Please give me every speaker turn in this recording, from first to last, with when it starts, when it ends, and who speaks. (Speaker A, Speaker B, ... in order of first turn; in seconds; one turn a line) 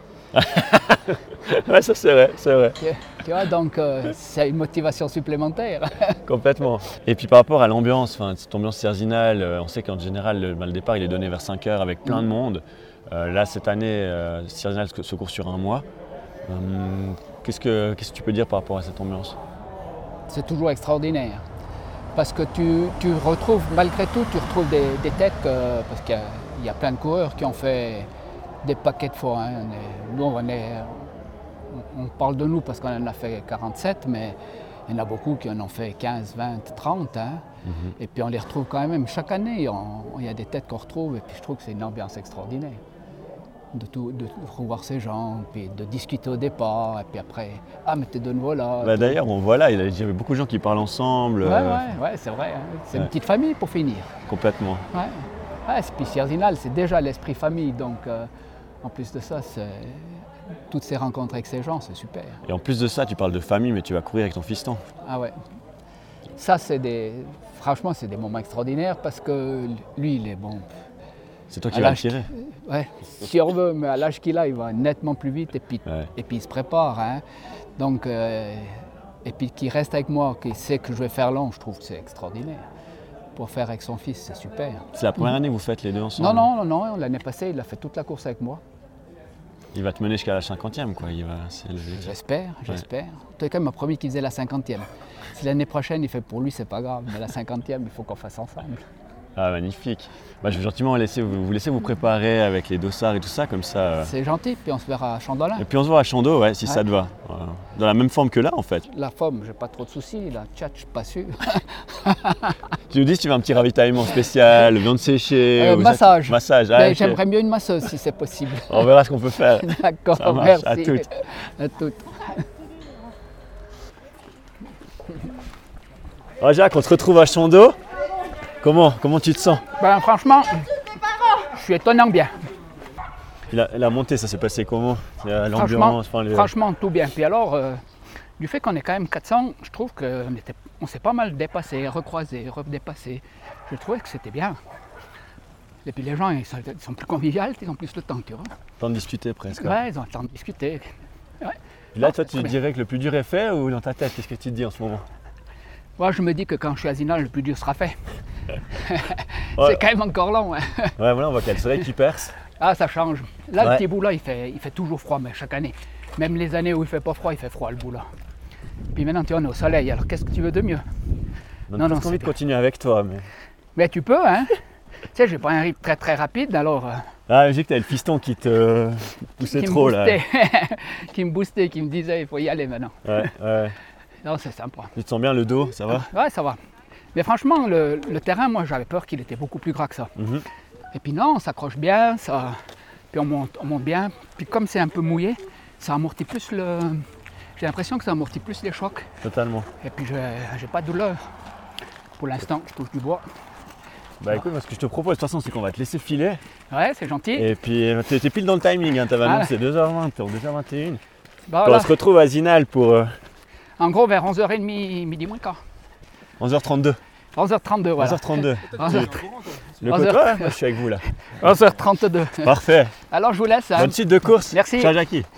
Speaker A: 0.3-2.8
Speaker B: 2.8-6.2
Speaker A: 6.3-15.8
Speaker A: 16.5-19.4
Speaker B: 20.3-21.4
Speaker B: 22.1-28.1
Speaker B: 28.6-34.4
Speaker B: 34.9-37.5
Speaker A: 37.6-37.9
Speaker B: 38.0-42.8
Speaker B: 43.7-49.2
Speaker A: 48.8-52.0
Speaker B: 51.4-54.2
Speaker A: 54.3-54.9
Speaker B: 54.9-58.3
Speaker B: 58.8-62.4
Speaker A: 62.5-64.8
Speaker B: 65.0-65.4
Speaker B: 66.4-70.7
Speaker A: 71.5-72.3
Speaker B: 71.7-77.2
Speaker B: 77.8-78.7
Speaker B: 79.2-82.6
Speaker B: 83.4-85.3
Speaker A: 85.0-86.5
Speaker B: 86.2-88.6
Speaker A: 89.7-92.1
Speaker B: 91.9-98.8
Speaker A: 99.4-104.1
Speaker B: 104.0-105.7
Speaker A: 105.6-108.9
Speaker B: 108.9-112.7
Speaker A: 112.9-117.2
Speaker B: 115.5-118.9
Speaker A: 118.7-121.1
Speaker B: 119.5-122.4
Speaker A: 126.4-127.8
Speaker A: 128.6-129.7
Speaker B: 129.8-130.7
Speaker B: 131.4-132.3
Speaker A: 133.5-136.5
Speaker B: 135.6-137.8
Speaker B: 138.4-144.6
Speaker B: 145.8-148.5
Speaker A: 148.8-149.8
Speaker B: 149.5-150.9
Speaker B: 151.4-152.6
Speaker A: 151.9-155.0
Speaker B: 156.0-158.0
Speaker B: 158.7-161.0
Speaker A: 159.6-159.8
Speaker A: 161.0-162.3
Speaker B: 162.5-168.1
Speaker A: 163.6-163.8
Speaker B: 168.9-170.8
Speaker A: 171.7-173.3
Speaker B: 171.8-172.3
Speaker B: 173.8-174.5
Speaker B: 175.1-177.1
Speaker A: 177.3-180.2
Speaker B: 179.4-183.3
Speaker A: 183.1-183.8
Speaker B: 184.2-184.9
Speaker A: 184.9-186.1
Speaker B: 185.9-186.6
Speaker B: 187.1-190.1
Speaker A: 190.2-190.4
Speaker B: 190.9-192.6
Speaker B: 193.1-197.0
Speaker B: 197.6-199.1
Speaker A: 199.2-199.7
Speaker B: 199.8-201.2
Speaker B: 202.2-203.2
Speaker A: 204.2-206.4
Speaker B: 206.7-207.5
Speaker A: 207.3-211.0
Speaker B: 209.2-209.5
Speaker B: 211.5-212.0
Speaker A: 211.6-213.1
Speaker B: 213.8-215.6
Speaker A: 216.4-217.0
Speaker B: 217.4-220.6
Speaker A: 218.0-219.1
Speaker A: 219.8-221.0
Speaker B: 221.3-224.9
Speaker A: 222.4-222.9
Speaker A: 223.8-225.3